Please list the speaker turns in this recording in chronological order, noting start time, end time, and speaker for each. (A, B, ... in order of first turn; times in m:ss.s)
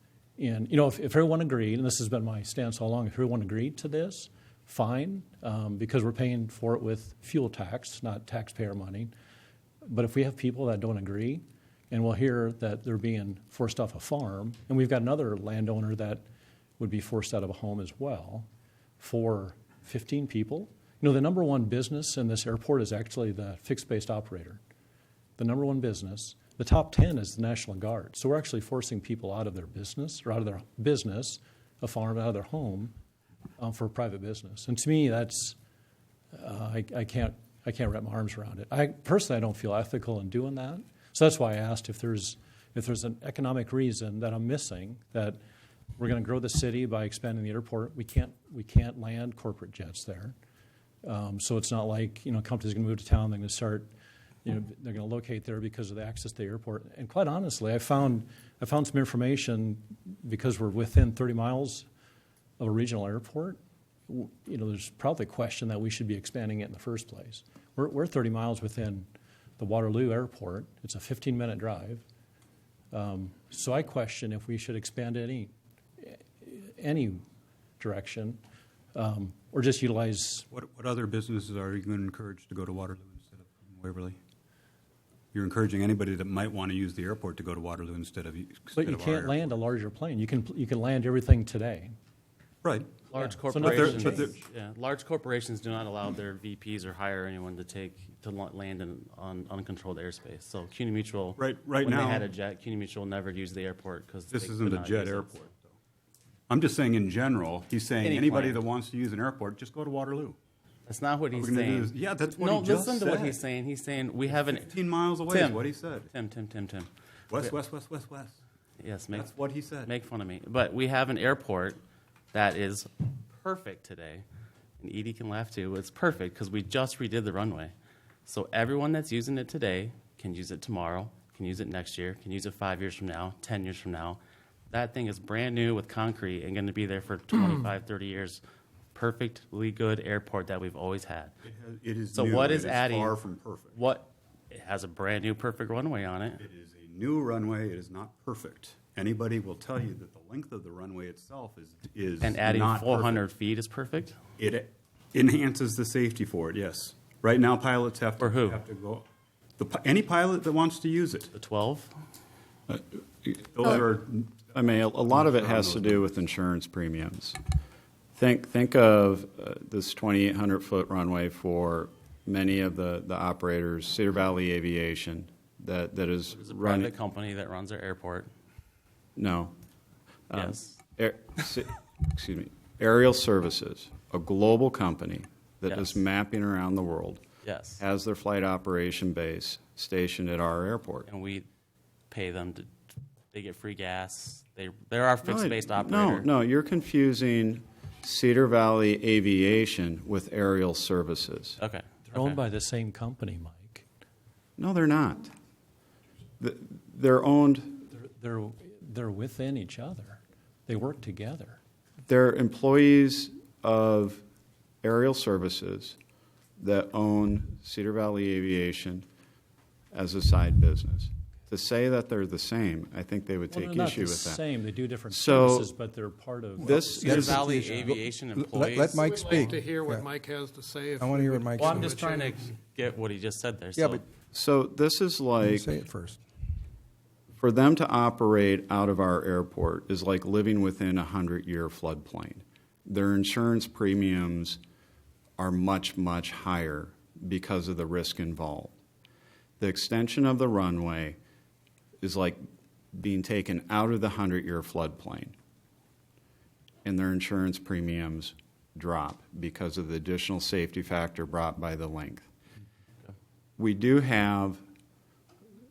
0:00.4-0:09.1 A
0:09.9-0:16.2 A
0:16.8-0:18.5 A
0:19.0-0:24.6 A
0:25.4-0:32.9 A
0:33.6-0:35.6 A
0:36.3-0:45.4 A
0:46.0-0:50.4 A
0:51.0-0:53.9 A
0:54.4-1:01.9 A
1:02.6-1:09.1 A
1:09.6-1:12.0 A
1:12.9-1:17.2 A
1:17.8-1:18.4 A
1:19.0-1:20.5 A
1:20.5-1:24.2 B
1:25.3-1:29.5 B
1:28.8-1:31.9 A
1:32.6-1:33.0 B
1:33.1-1:45.5 C
1:33.2-1:34.3 A
1:33.6-1:34.4 B
1:41.4-1:42.3 B
1:44.3-1:45.7 B
1:46.5-1:50.4 B
1:48.0-1:48.6 C
1:50.9-1:57.5 C
1:51.3-1:53.4 B
1:54.3-1:56.1 B
1:57.3-1:58.4 B
1:58.8-2:01.8 C
1:59.1-1:59.9 B
2:02.3-2:04.2 C
2:04.8-2:07.7 C
2:08.3-2:18.4 C
2:18.9-2:21.3 C
2:21.4-2:23.8 B
2:22.1-2:23.2 C
2:23.7-2:26.4 C
2:26.4-2:33.2 B
2:32.2-2:34.2 C
2:34.4-2:39.1 B
2:38.2-2:38.6 C
2:39.6-2:41.3 B
2:41.3-2:42.0 C
2:43.4-2:44.5 B
2:43.6-2:43.9 D
2:44.4-2:47.4 D
2:45.1-2:46.0 B
2:48.2-2:56.9 D
2:56.3-2:58.3 C
2:59.2-2:59.5 D
3:00.3-3:07.2 D
3:00.3-3:00.8 C
3:05.7-3:06.0 C
3:07.4-3:07.8 C
3:07.8-3:11.1 D
3:11.1-3:11.5 C
3:12.1-3:12.7 C
3:13.3-3:16.3 C
3:15.2-3:21.6 D
3:21.6-3:22.4 C
3:22.1-3:23.8 A
3:24.6-3:25.3 D
3:26.4-3:27.9 D
3:28.0-3:31.6 A
3:32.1-3:34.2 D
3:34.8-3:36.0 D
3:36.6-3:39.0 D
3:39.9-3:44.4 D
3:43.5-3:47.3 A
3:45.1-3:45.7 D
3:46.6-3:47.5 D
3:46.6-3:50.1 E
3:47.0-3:49.5 C
3:49.0-3:52.4 F
3:51.0-3:52.2 E
3:51.6-3:54.0 C
3:53.8-3:54.0 E
3:54.3-3:55.7 D
3:55.4-3:56.2 E
3:57.4-4:04.6 D
4:05.4-4:08.8 D
4:09.6-4:11.2 D
4:12.0-4:12.4 D
4:12.9-4:15.4 D
4:16.8-4:22.3 D
4:23.6-4:24.6 D